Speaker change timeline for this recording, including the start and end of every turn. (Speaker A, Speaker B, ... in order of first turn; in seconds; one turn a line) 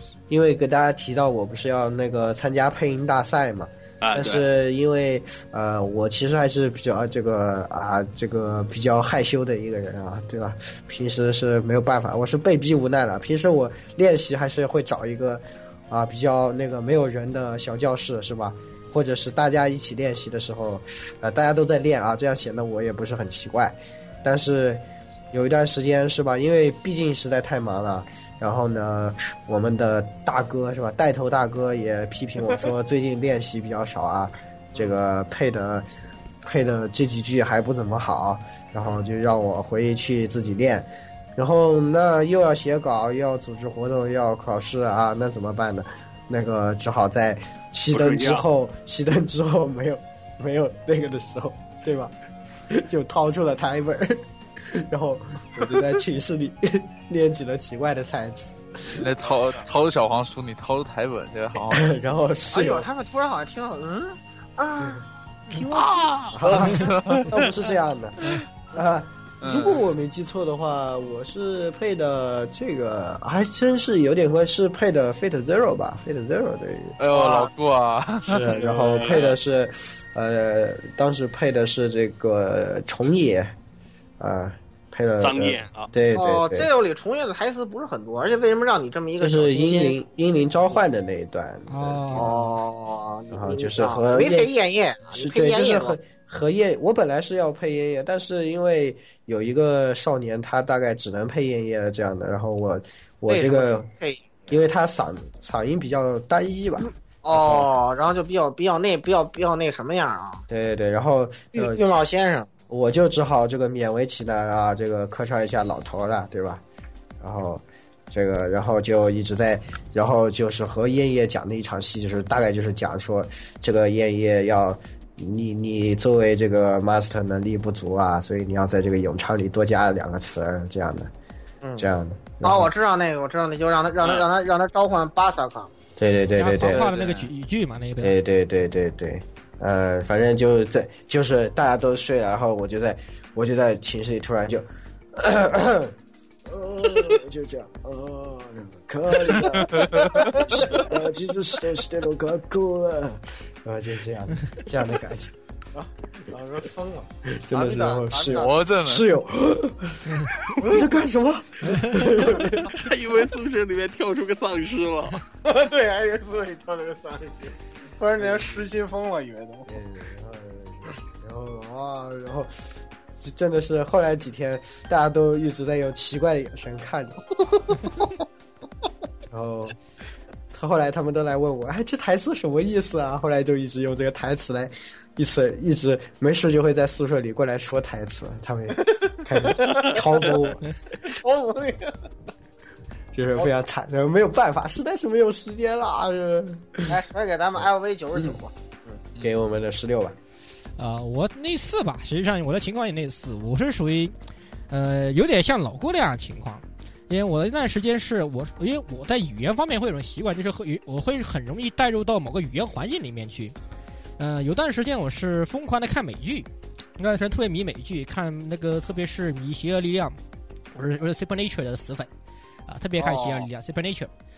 Speaker A: 0.3-35.9
Speaker B: 4.0-4.5
Speaker A: 36.4-52.1
Speaker B: 47.9-48.4
Speaker A: 52.7-58.5
Speaker C: 58.9-61.8
Speaker A: 61.7-62.9
Speaker D: 62.5-67.3
Speaker B: 65.7-66.6
Speaker A: 66.3-77.0
Speaker C: 66.7-67.3
Speaker C: 69.4-69.8
Speaker C: 77.0-78.6
Speaker D: 77.1-77.6
Speaker A: 78.2-83.5
Speaker B: 78.5-79.4
Speaker A: 84.2-86.7
Speaker B: 85.2-85.9
Speaker D: 86.1-89.9
Speaker A: 89.2-92.3
Speaker E: 91.7-92.5
Speaker D: 92.2-96.0
Speaker A: 93.3-94.5
Speaker A: 95.1-103.9
Speaker D: 103.3-104.6
Speaker A: 104.5-107.7
Speaker D: 107.2-110.4
Speaker A: 110.5-111.9
Speaker D: 111.5-112.5
Speaker A: 112.7-116.6
Speaker A: 117.2-131.1
Speaker A: 131.8-132.7
Speaker D: 132.4-135.7
Speaker B: 134.0-134.2
Speaker A: 136.0-136.9
Speaker E: 136.3-138.2
Speaker C: 136.6-137.3
Speaker A: 138.0-145.9
Speaker A: 146.5-155.3
Speaker C: 149.6-150.3
Speaker D: 150.3-150.9
Speaker D: 155.7-158.5
Speaker A: 157.4-162.7
Speaker C: 158.3-159.1
Speaker D: 160.6-160.9
Speaker B: 162.6-165.2
Speaker D: 165.4-169.7
Speaker A: 168.2-168.7
Speaker A: 169.7-178.1
Speaker A: 179.3-179.8
Speaker A: 180.5-190.6
Speaker D: 189.6-190.0
Speaker D: 191.0-192.0
Speaker A: 193.1-197.0
Speaker D: 196.9-199.0
Speaker A: 199.2-200.2
Speaker E: 200.8-204.1
Speaker E: 204.7-213.5
Speaker E: 214.2-220.2
Speaker E: 220.7-222.1
Speaker E: 222.7-224.1
Speaker D: 223.0-223.5